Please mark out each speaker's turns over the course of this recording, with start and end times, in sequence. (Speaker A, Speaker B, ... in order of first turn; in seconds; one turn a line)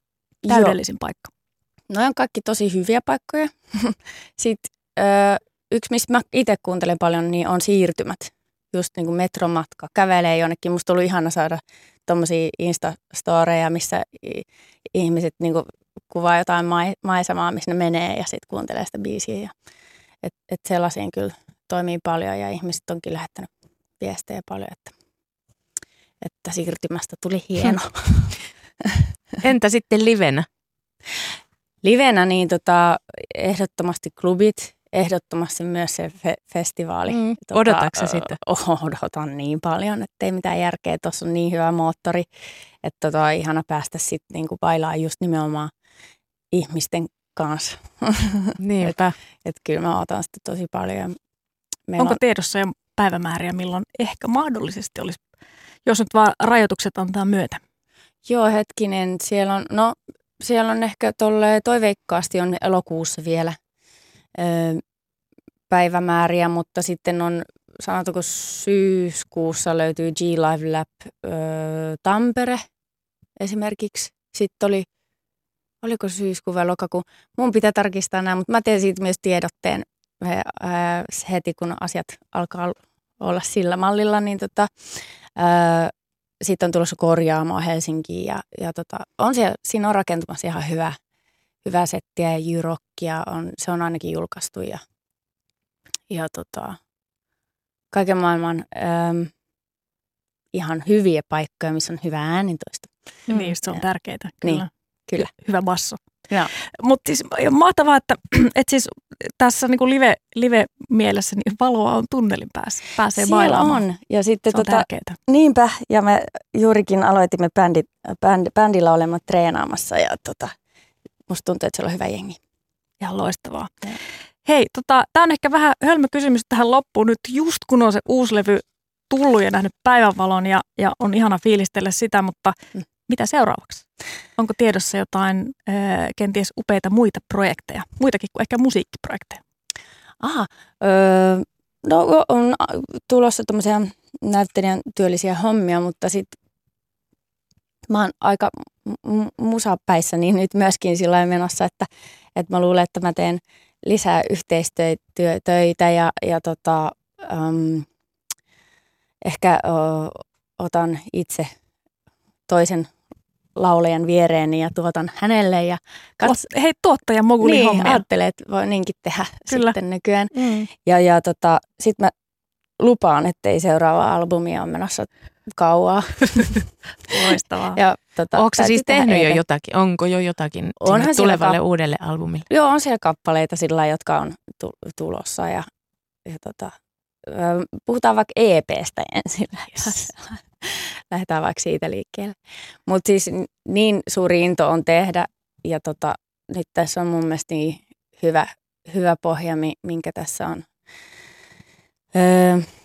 Speaker A: 0.4-0.8
Speaker B: 0.5-1.3
Speaker A: 1.9-19.5
Speaker A: 20.2-23.5
Speaker A: 24.0-24.9
Speaker A: 26.2-29.1
Speaker C: 29.4-30.5
Speaker A: 31.8-42.2
Speaker C: 37.1-38.4
Speaker A: 42.8-45.7
Speaker A: 46.5-51.1
Speaker C: 48.6-49.1
Speaker A: 51.9-52.2
Speaker B: 52.0-55.2
Speaker B: 55.8-57.6
Speaker A: 58.2-63.5
Speaker A: 64.3-64.8
Speaker A: 65.7-72.6
Speaker A: 73.4-74.9
Speaker A: 75.8-91.0
Speaker A: 91.6-94.8
Speaker A: 96.1-96.8
Speaker A: 97.9-99.3
Speaker A: 100.5-103.8
Speaker B: 103.3-106.0
Speaker A: 104.4-105.3
Speaker B: 106.6-113.8
Speaker A: 113.2-120.5
Speaker B: 114.5-115.2
Speaker A: 121.3-122.4
Speaker B: 123.0-123.8
Speaker B: 124.4-133.8
Speaker B: 134.4-139.4
Speaker A: 140.2-146.3
Speaker A: 147.9-157.9
Speaker A: 159.2-161.5
Speaker A: 162.5-162.9
Speaker A: 163.6-166.4
Speaker B: 166.2-168.0
Speaker A: 167.4-172.1
Speaker B: 169.5-169.8
Speaker B: 170.4-170.7
Speaker A: 172.8-176.6
Speaker B: 177.1-177.8
Speaker A: 177.8-179.4
Speaker C: 178.3-182.5
Speaker A: 180.8-181.6
Speaker A: 182.5-185.7
Speaker A: 186.2-186.7
Speaker A: 187.3-200.7
Speaker A: 202.1-202.7